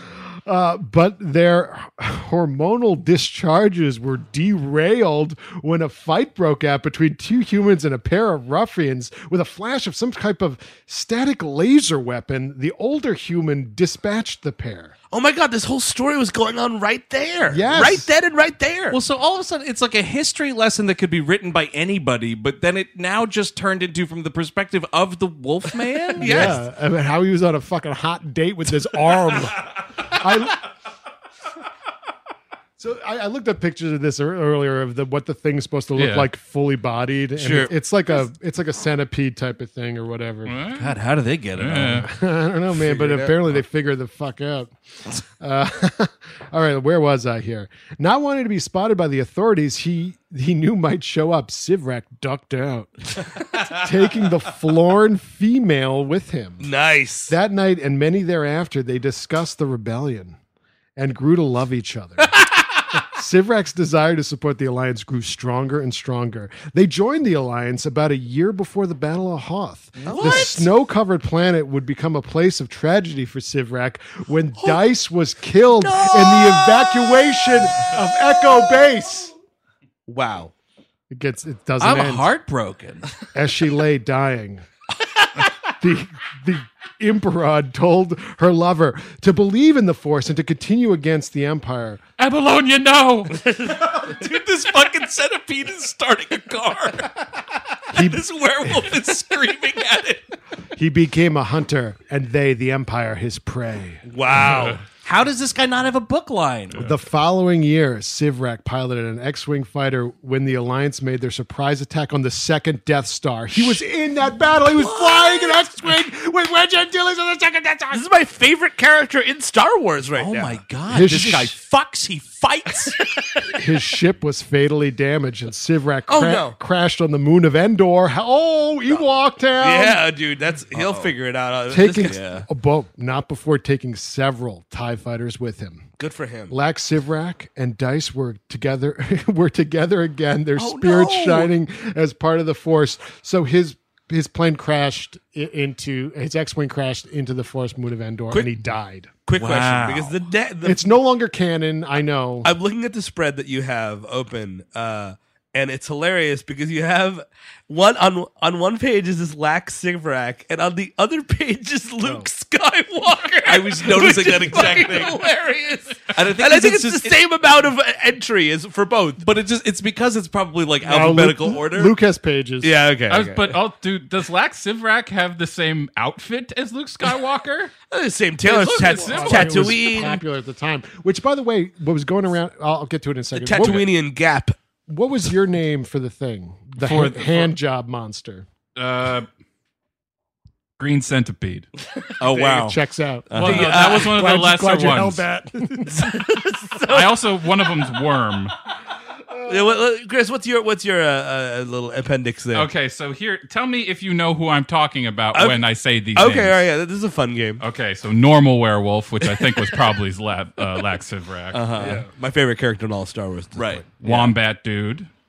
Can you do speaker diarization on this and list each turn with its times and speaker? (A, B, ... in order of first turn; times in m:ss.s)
0:00.4-0:14.9 A
0:15.1-0:19.0 B
0:17.5-0:18.1 A
0:18.9-0:26.6 C
0:26.1-0:26.6 B
0:26.2-0:30.7 A
0:32.8-0:40.5 A
0:36.0-0:36.3 D
0:37.4-0:37.7 C
0:40.4-0:41.0 D
0:40.7-0:42.1 C
0:41.5-0:42.1 D
0:41.9-0:56.7 A
0:42.8-0:43.4 B
0:56.6-0:57.3 B
0:57.3-1:00.4 A
1:01.0-1:02.4 A
1:02.9-1:19.3 A
1:10.0-1:10.6 B
1:10.0-1:10.6 C
1:15.8-1:16.8 C
1:20.1-1:20.5 B
1:21.1-1:22.3 A
1:21.8-1:23.1 C
1:23.3-1:24.6 A
1:25.8-1:32.0 A
1:32.2-1:33.4 D
1:33.6-1:37.2 C
1:37.9-1:38.9 A
1:37.9-1:40.2 C
1:40.7-1:44.0 A
1:44.0-1:44.8 B
1:45.0-1:46.8 C
1:46.8-1:58.0 A
1:53.5-1:53.8 C
1:54.7-1:55.6 C
1:57.9-2:00.6 B
2:00.2-2:03.0 C
2:00.9-2:01.6 A
2:03.5-2:10.0 A
2:06.1-2:06.6 B
2:09.6-2:12.2 B
2:10.7-2:11.1 C
2:11.7-2:15.8 A
2:12.0-2:12.4 C
2:16.0-2:16.6 B
2:16.5-2:29.2 A
2:20.6-2:21.5 B
2:28.3-2:28.6 B
2:29.2-2:30.8 B
2:29.4-2:30.1 C
2:30.6-2:32.5 A
2:32.4-2:49.2 B
2:42.0-2:42.3 A
2:43.4-2:45.2 C
2:46.1-2:47.2 C
2:49.2-2:52.0 C
2:50.8-2:52.7 A
2:52.6-2:53.6 B
2:53.1-2:57.7 D
2:57.9-3:00.2 B
2:58.4-2:59.8 D
2:58.8-3:03.9 A
3:03.3-3:04.5 B
3:03.6-3:03.8 D
3:04.9-3:08.4 A
3:06.8-3:07.5 D
3:08.8-3:09.3 D
3:10.8-3:11.6 D
3:12.2-3:12.8 C
3:12.2-3:12.7 B
3:12.6-3:16.0 A
3:13.3-3:13.6 C
3:13.3-3:15.2 D
3:13.4-3:14.2 B
3:15.9-3:17.1 B
3:16.9-3:18.5 D
3:19.3-3:19.8 A
3:19.5-3:22.7 B
3:22.5-3:26.6 D
3:25.3-3:25.6 B
3:26.2-3:27.6 B
3:27.6-3:31.7 D
3:29.2-3:29.8 B
3:31.5-3:32.0 C
3:31.8-3:33.8 B
3:33.6-3:34.3 C
3:34.0-3:35.1 D